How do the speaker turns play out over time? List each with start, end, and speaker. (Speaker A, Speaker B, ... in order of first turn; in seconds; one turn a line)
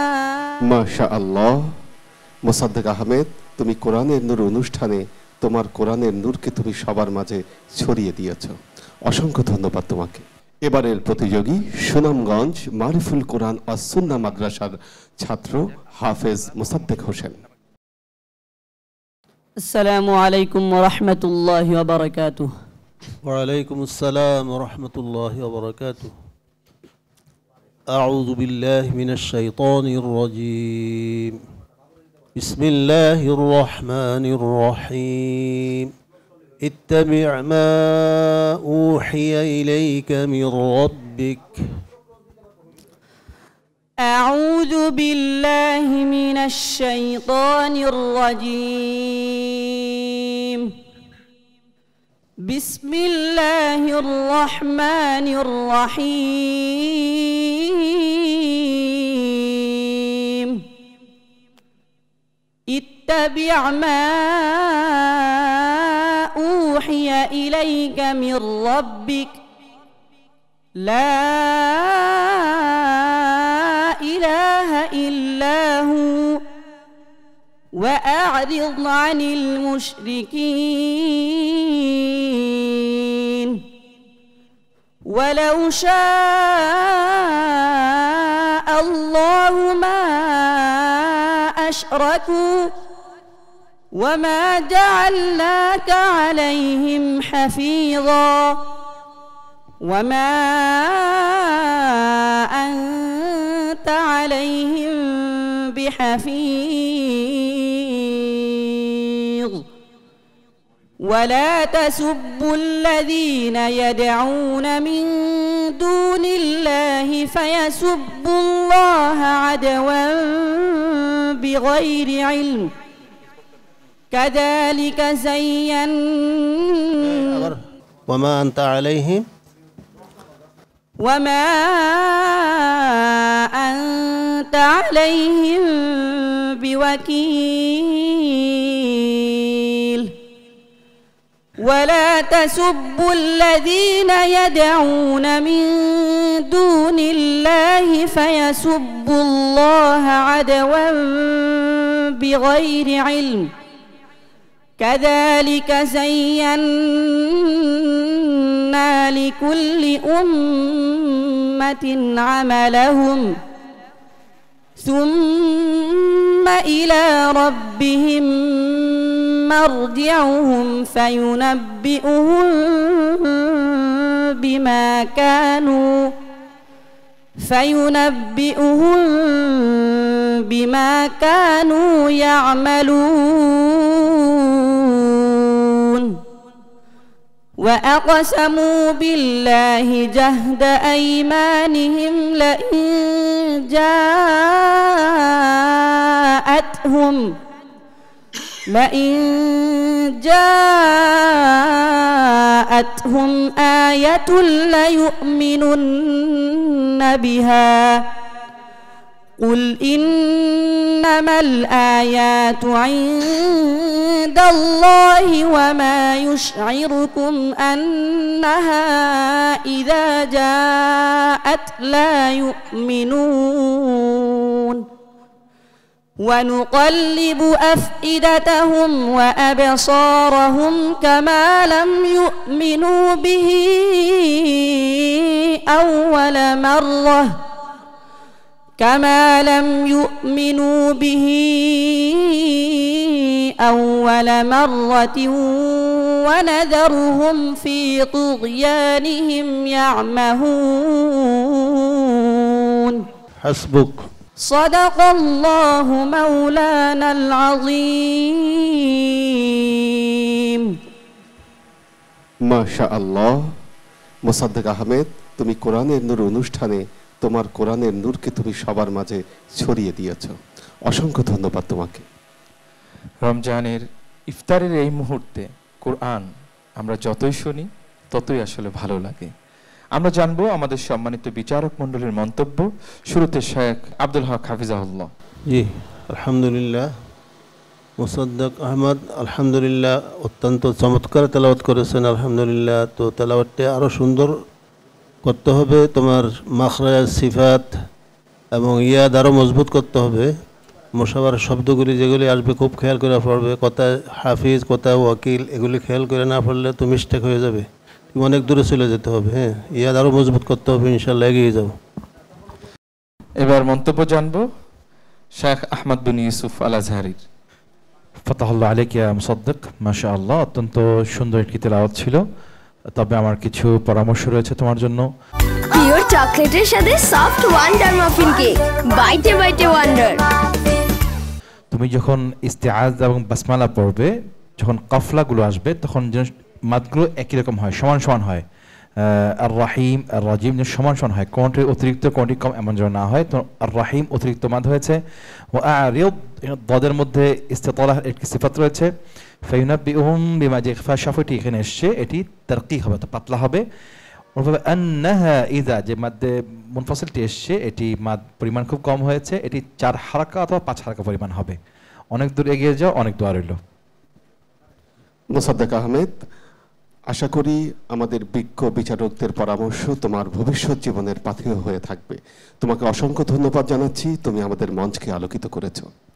Speaker A: 0.2-0.5
Speaker B: 0.7-1.6
Speaker B: 2.5-8.6
Speaker B: 9.1-17.3
Speaker A: 19.6-22.5
Speaker C: 23.2-26.1
Speaker C: 27.9-31.4
Speaker C: 32.4-35.9
Speaker C: 36.6-41.6
Speaker A: 44.0-50.7
Speaker A: 52.4-60.6
Speaker A: 62.7-69.4
Speaker A: 70.8-76.4
Speaker A: 77.8-83.6
Speaker A: 85.1-92.7
Speaker A: 93.9-98.6
Speaker A: 99.8-109.6
Speaker A: 111.0-122.7
Speaker A: 124.1-127.5
Speaker C: 127.0-129.2
Speaker A: 131.0-140.1
Speaker A: 141.6-153.5
Speaker A: 154.8-163.3
Speaker A: 164.8-176.1
Speaker A: 177.4-186.2
Speaker A: 187.6-197.2
Speaker A: 198.7-208.1
Speaker A: 209.4-224.8
Speaker A: 226.2-237.4
Speaker A: 238.8-253.0
Speaker C: 253.4-254.1
Speaker A: 254.4-260.7
Speaker B: 262.5-263.4
Speaker B: 264.3-270.4
Speaker B: 270.9-272.1
Speaker D: 273.2-279.3
Speaker D: 280.0-285.1
Speaker C: 285.5-286.9
Speaker C: 288.0-294.4
Speaker C: 295.2-297.7
Speaker C: 298.5-300.3
Speaker C: 300.9-311.7
Speaker D: 313.4-314.4
Speaker D: 315.4-317.2
Speaker E: 318.3-322.2
Speaker E: 323.0-325.1
Speaker F: 325.7-330.2
Speaker E: 331.7-334.1
Speaker E: 334.6-338.4
Speaker E: 339.0-345.0
Speaker E: 345.5-348.9
Speaker E: 349.5-353.6
Speaker E: 354.4-361.6
Speaker E: 362.1-363.6
Speaker B: 365.4-366.1
Speaker B: 367.1-375.9